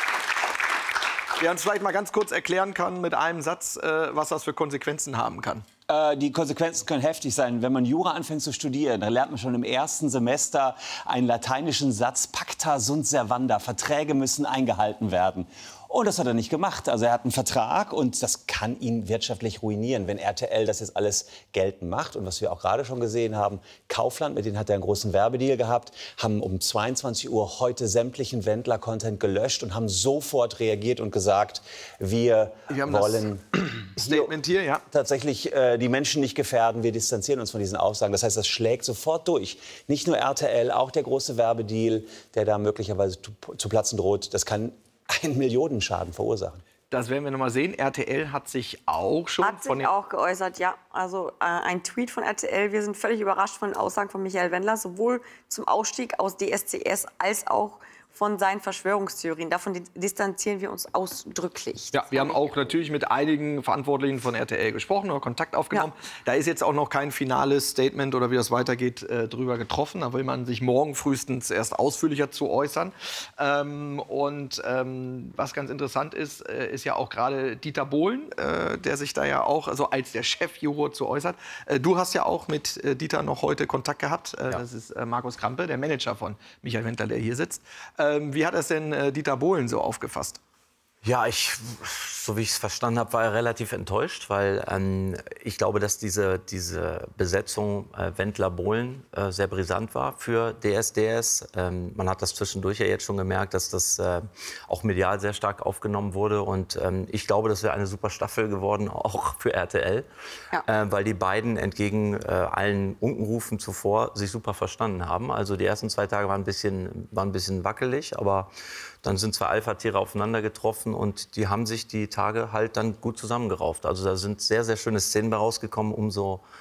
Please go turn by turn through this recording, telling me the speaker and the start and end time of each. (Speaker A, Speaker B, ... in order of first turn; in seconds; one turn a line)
Speaker A: 1.4-5.7
Speaker B: 5.9-34.3
Speaker A: 32.7-34.8
Speaker B: 34.9-46.6
Speaker A: 46.9-49.9
Speaker C: 49.4-62.7
Speaker A: 61.9-90.4
Speaker D: 91.0-110.1
Speaker D: 110.6-118.5
Speaker D: 119.0-126.4